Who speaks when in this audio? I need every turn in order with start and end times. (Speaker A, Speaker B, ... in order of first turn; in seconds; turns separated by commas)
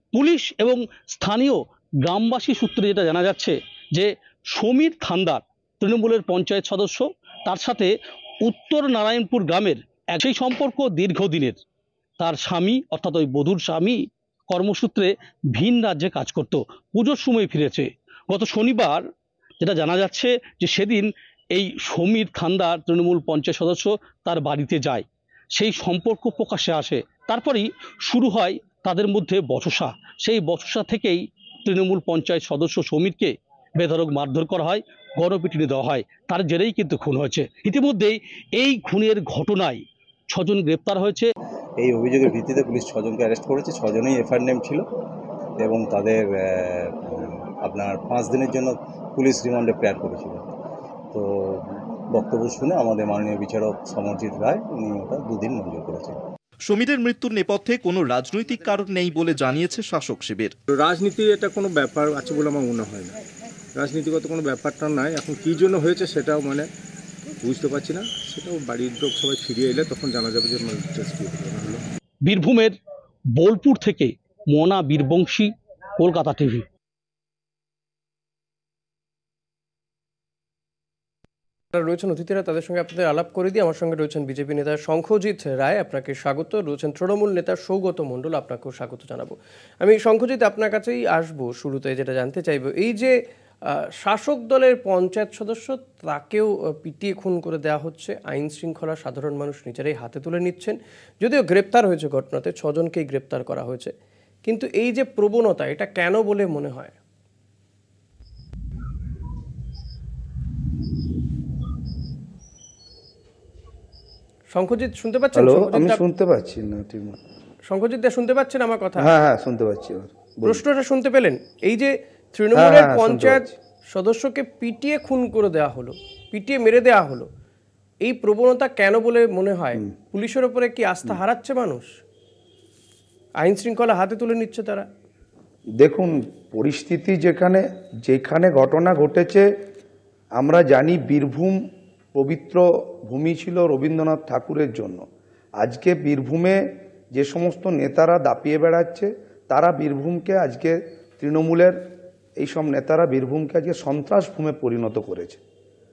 Speaker A: 0.1-7.9, Speaker A: 8.4-11.6, Speaker A: 12.2-19.1, Speaker A: 19.6-41.3, Speaker B: 41.8-44.8, Speaker B: 45.6-50.5, Speaker B: 51.1-56.2, Speaker C: 56.6-60.5, Speaker D: 60.7-63.1, Speaker D: 63.8-66.7, Speaker D: 67.4-71.8, Speaker A: 72.2-72.8, Speaker A: 73.3-76.6, Speaker E: 81.7-93.1, Speaker E: 93.7-103.9, Speaker E: 104.4-107.0, Speaker E: 114.5-116.0, Speaker F: 115.3-117.2, Speaker E: 117.7-119.1, Speaker F: 119.0-120.6, Speaker E: 120.4-127.3, Speaker F: 122.5-123.5, Speaker E: 128.0-131.9, Speaker E: 133.4-134.9, Speaker F: 135.8-139.5, Speaker F: 140.3-141.6, Speaker F: 142.1-145.0, Speaker F: 145.6-151.8, Speaker F: 152.4-155.4